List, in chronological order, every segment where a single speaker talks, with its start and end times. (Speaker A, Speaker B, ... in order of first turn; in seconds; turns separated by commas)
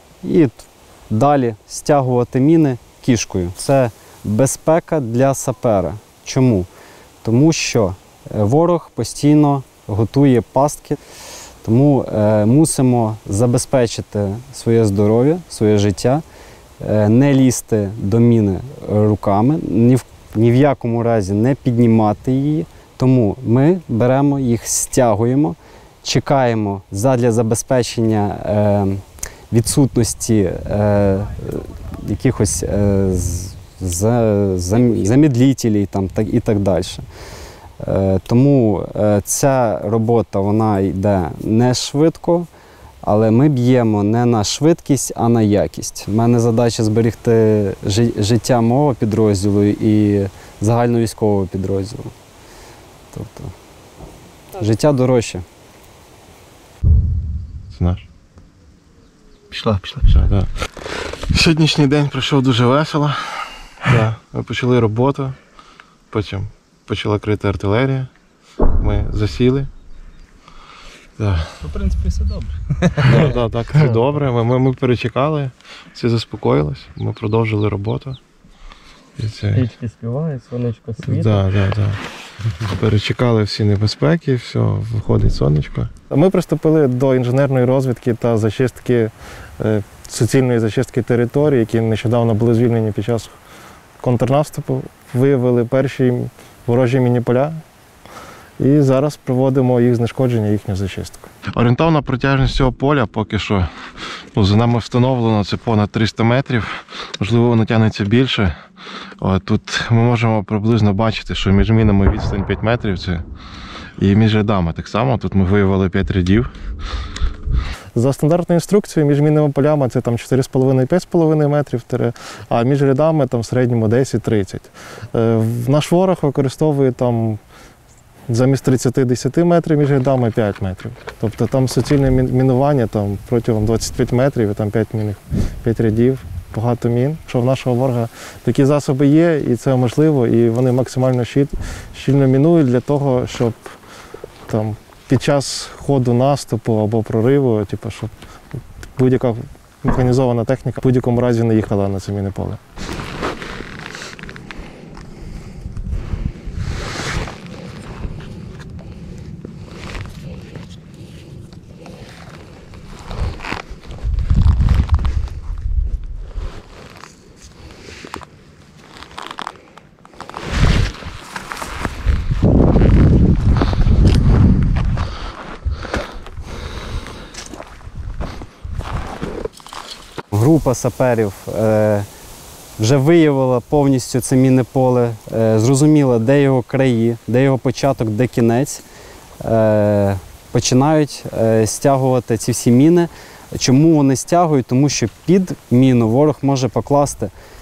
Speaker A: 0.2-6.7, Speaker A: 7.2-11.0, Speaker A: 11.6-16.2, Speaker A: 16.8-37.0, Speaker A: 37.8-42.5, Speaker A: 43.0-52.1, Speaker A: 53.1-53.5, Speaker A: 54.5-55.4, Speaker B: 57.7-58.0, Speaker B: 60.0-60.5, Speaker B: 61.2-65.4, Speaker B: 66.1-68.1, Speaker B: 68.8-69.7, Speaker B: 71.2-71.6, Speaker C: 71.6-74.1, Speaker B: 73.1-78.2, Speaker B: 79.2-79.6, Speaker C: 79.5-81.5, Speaker B: 81.2-82.0, Speaker B: 82.7-85.9, Speaker D: 86.1-93.3, Speaker D: 94.0-97.6, Speaker D: 98.6-101.3, Speaker B: 101.5-103.7, Speaker B: 104.3-108.6, Speaker B: 109.2-113.2, Speaker B: 114.0-116.5, Speaker D: 117.9-127.4, Speaker D: 128.3-143.7, Speaker D: 144.5-148.1, Speaker D: 148.9-152.6, Speaker A: 180.3-182.1, Speaker A: 182.8-188.8, Speaker A: 189.4-197.3